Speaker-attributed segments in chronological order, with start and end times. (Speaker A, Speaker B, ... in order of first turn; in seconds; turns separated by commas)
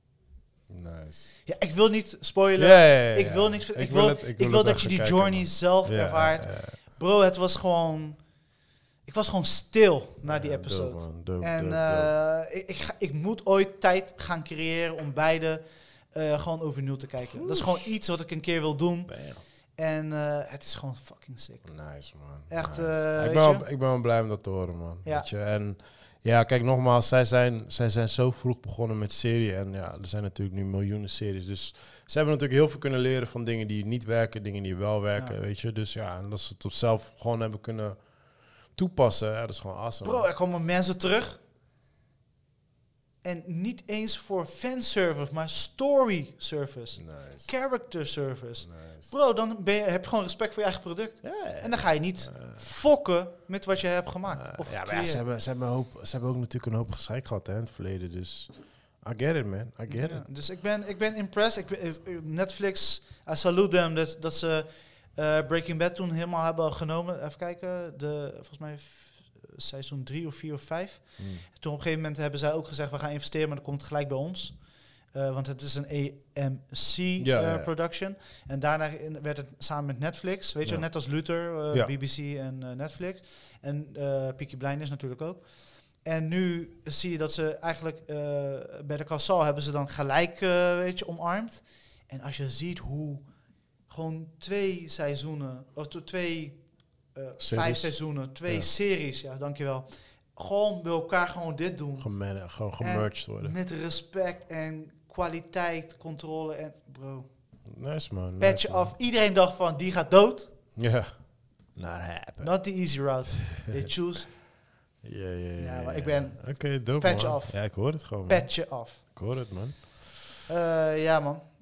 Speaker A: 0.7-1.3, Speaker B: 1.4-8.2, Speaker A: 2.6-6.8, Speaker B: 9.1-21.7, Speaker A: 10.2-12.1, Speaker A: 17.3-17.8, Speaker A: 19.1-19.4, Speaker A: 21.6-38.0, Speaker B: 22.5-23.6, Speaker A: 38.7-40.2, Speaker B: 40.0-41.4, Speaker B: 43.2-55.2, Speaker A: 47.0-47.5, Speaker A: 48.6-49.1, Speaker A: 51.2-52.6, Speaker A: 54.3-58.5, Speaker A: 59.0-60.2, Speaker B: 59.9-74.6, Speaker A: 71.2-71.4, Speaker B: 75.1-93.3, Speaker A: 77.2-77.7, Speaker A: 80.6-80.9, Speaker B: 93.9-96.6, Speaker B: 97.1-102.1, Speaker A: 97.4-98.7, Speaker A: 102.0-103.5, Speaker B: 102.8-107.3, Speaker A: 107.7-108.9, Speaker B: 108.4-110.5, Speaker A: 110.8-112.5, Speaker B: 112.4-114.3, Speaker A: 115.0-120.2, Speaker B: 115.6-119.0, Speaker B: 120.5-121.4